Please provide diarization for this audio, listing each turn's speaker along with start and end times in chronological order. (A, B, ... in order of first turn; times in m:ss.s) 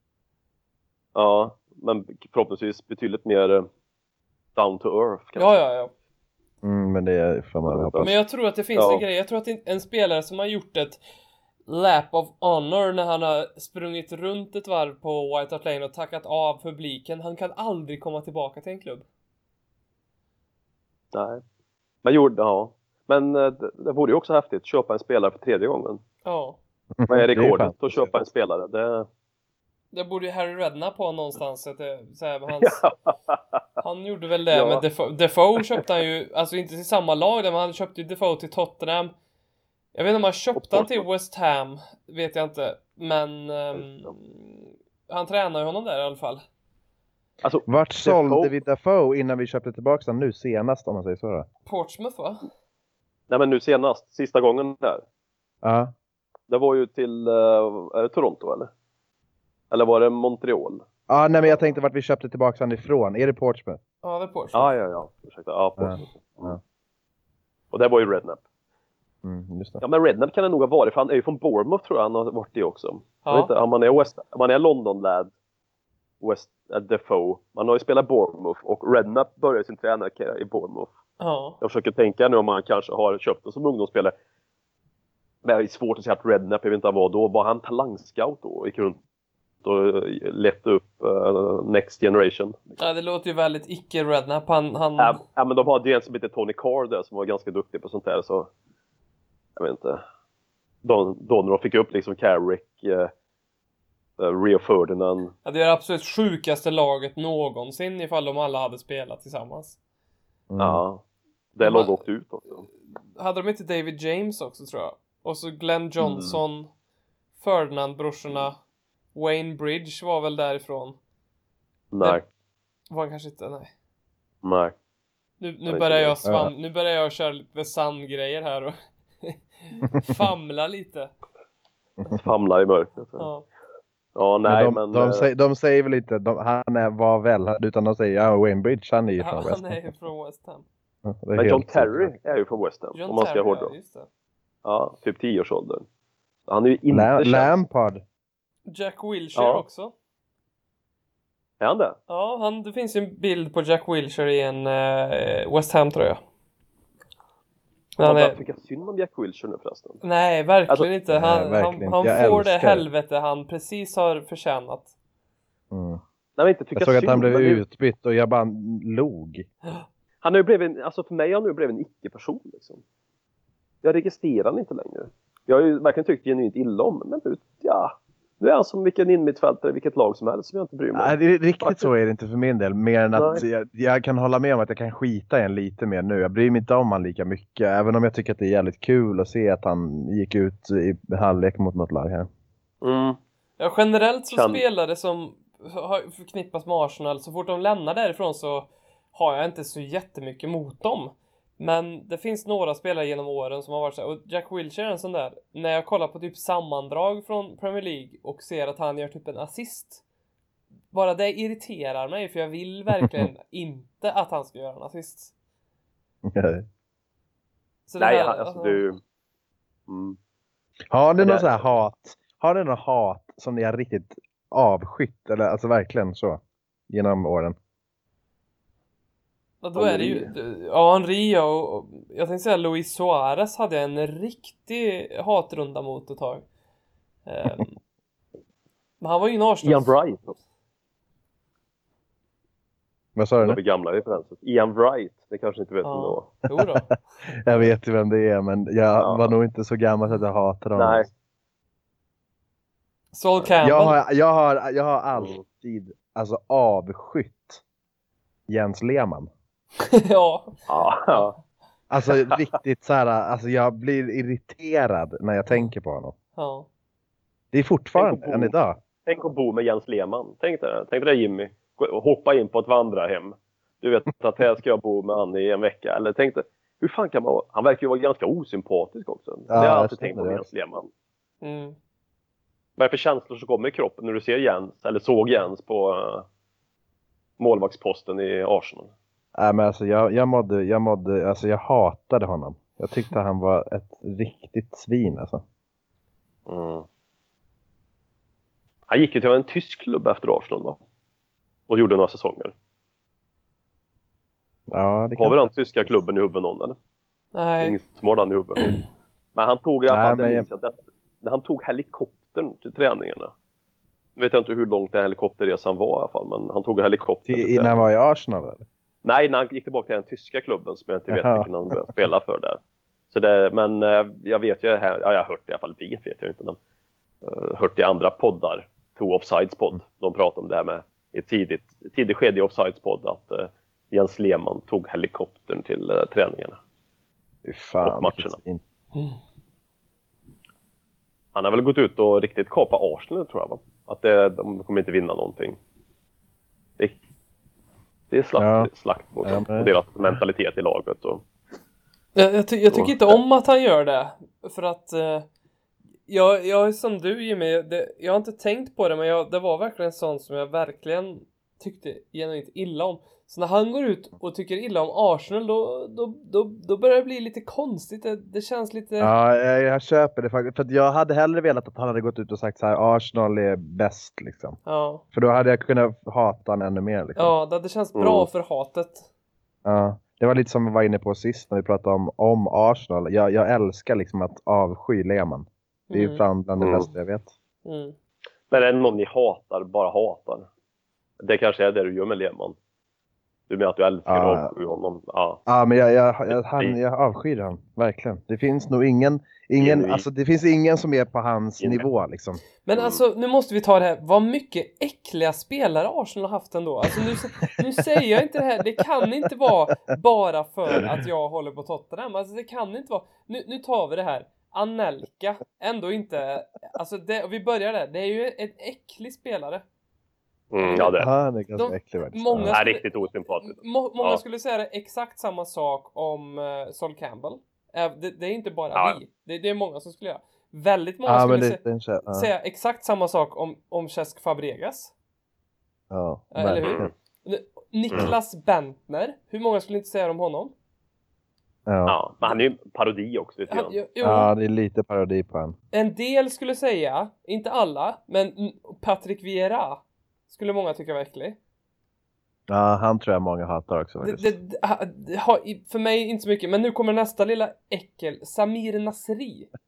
0:01.2-0:03.7 A
0:04.6-0:05.6 A
0:05.4-0:05.9 B
0:06.6-0:08.1 C
0:07.7-0:08.1 A
0:08.0-0:11.0 B
0:08.8-0:09.0 A
0:11.7-0:19.1 B
0:21.1-0:21.4 A
0:22.0-0:26.0 A
0:26.2-0:26.6 B
0:27.0-0:27.8 C
0:27.1-0:29.1 A
0:29.9-0:32.8 B
0:32.6-0:33.4 A
0:33.8-0:39.1 B
0:34.5-0:34.8 A
0:39.9-0:46.4 B
0:40.6-0:41.0 A
0:43.7-0:44.1 A
0:47.4-0:48.5 A
0:47.7-0:51.5 C
0:51.7-0:52.5 B
0:53.3-0:55.0 A
0:55.6-0:55.9 C
0:56.5-0:58.7 A
0:59.7-1:00.8 A
1:01.1-1:03.8 C
1:04.0-1:04.7 B
1:04.5-1:06.6 A
1:05.8-1:06.6 C
1:07.7-1:08.4 A
1:09.2-1:09.8 C
1:09.8-1:15.3 A
1:13.2-1:13.5 B
1:16.2-1:20.9 A
1:21.2-1:21.6 B
1:21.6-1:24.1 A
1:25.4-1:29.0 A
1:29.6-1:32.8 A
1:32.8-1:35.2 B
1:35.0-1:38.5 A
1:39.6-1:40.0 A
1:40.8-1:43.1 A
1:44.2-1:45.3 A
1:45.4-1:49.8 B
1:50.5-1:50.8 C
1:50.6-1:51.0 A
1:51.6-1:52.7 A
1:51.6-1:52.0 B
1:53.2-1:56.7 B
1:56.0-1:56.4 A
1:57.4-1:58.6 B
1:59.2-2:01.0 B
2:01.9-2:02.2 A
2:02.9-2:03.7 B
2:04.4-2:04.8 A
2:05.4-2:11.1 B
2:05.7-2:06.2 A
2:06.2-2:06.5 C
2:12.1-2:13.3 A
2:13.2-2:13.5 B
2:14.2-2:15.3 A
2:14.4-2:19.9 C
2:19.2-2:20.6 B
2:21.0-2:22.1 C
2:21.4-2:23.7 A
2:23.0-2:24.1 B
2:24.6-2:25.8 A
2:26.5-2:27.6 A
2:26.9-2:28.0 C
2:28.7-2:29.9 B
2:29.4-2:29.6 A
2:31.6-2:32.0 A
2:32.1-2:36.2 B
2:38.0-2:38.4 B
2:38.0-2:40.0 A
2:40.0-2:44.9 B
2:41.1-2:42.9 C
2:45.7-2:46.0 C
2:46.4-2:47.6 A
2:46.8-2:49.5 C
2:50.2-2:52.8 A
2:53.8-3:01.9 A
3:01.0-3:12.3 C
3:03.1-3:03.4 A
3:12.8-3:13.2 A
3:13.6-3:30.0 B
3:14.3-3:14.6 A
3:30.9-3:35.3 B
3:33.0-3:33.3 C
3:36.2-3:36.6 C
3:37.9-3:38.8 B
3:38.0-3:39.0 A
3:39.9-3:40.2 A
3:40.9-3:47.6 C
3:41.2-3:41.6 A
3:49.6-3:56.4 B
3:49.8-3:50.3 A
3:57.3-3:57.8 B
3:59.0-3:59.9 B
3:59.6-4:00.4 A
4:03.2-4:03.6 C
4:03.4-4:06.3 A
4:05.8-4:06.9 B
4:07.4-4:11.1 C
4:09.0-4:09.3 A
4:10.8-4:11.1 A
4:13.1-4:14.0 B
4:13.6-4:17.6 C
4:15.2-4:15.4 A
4:18.5-4:19.3 C
4:19.8-4:21.3 B
4:20.7-4:21.4 A
4:21.9-4:26.2 C
4:26.4-4:26.7 B
4:27.5-4:28.8 C
4:28.0-4:28.5 A
4:29.0-4:40.9 A
4:39.5-4:40.4 C
4:41.4-4:41.8 B
4:42.8-4:46.3 A
4:47.4-4:48.9 A
4:49.4-4:55.4 C
4:56.5-4:56.9 A
4:58.9-5:00.8 A
5:01.7-5:02.5 A
5:04.7-5:05.4 C
5:05.2-5:06.8 A
5:07.3-5:07.8 B
5:07.6-5:08.8 A
5:09.4-5:13.3 A
5:09.9-5:10.5 C
5:14.2-5:17.8 A
5:17.3-5:18.6 C
5:19.0-5:22.6 A
5:21.1-5:21.5 C
5:23.1-5:26.6 A
5:27.2-5:36.6 A
5:37.4-5:38.6 C
5:37.8-5:38.4 A
5:41.4-5:45.6 A
5:48.1-5:51.2 A
5:48.4-5:48.7 C
5:49.2-5:49.7 C
5:52.2-5:55.3 B
5:52.7-5:53.2 A
5:56.1-6:09.1 B
6:09.0-6:14.6 C
6:14.6-6:15.0 B
6:15.1-6:17.3 C
6:17.2-6:19.0 B
6:18.0-6:18.3 A
6:19.6-6:27.3 C
6:25.9-6:26.2 B
6:26.6-6:26.9 A
6:27.6-6:28.0 B
6:28.5-6:30.5 A
6:31.2-6:32.6 A
6:33.5-6:35.4 A
6:34.1-6:34.5 C
6:35.5-6:42.4 C
6:36.3-6:36.8 A
6:39.6-6:40.0 A
6:42.6-6:59.6 B
6:42.8-6:43.0 A
7:00.5-7:01.1 A
7:00.6-7:00.9 B
7:00.9-7:02.6 C
7:01.6-7:02.8 B
7:02.5-7:04.2 A
7:03.4-7:14.9 B
7:11.1-7:12.3 C
7:15.9-7:16.9 C
7:16.3-7:20.5 B
7:16.6-7:16.9 A
7:21.7-7:22.0 C
7:21.9-7:23.8 A
7:23.5-7:24.3 B
7:24.0-7:25.6 C
7:25.7-7:31.4 B
7:32.5-7:34.3 C
7:34.0-7:39.5 B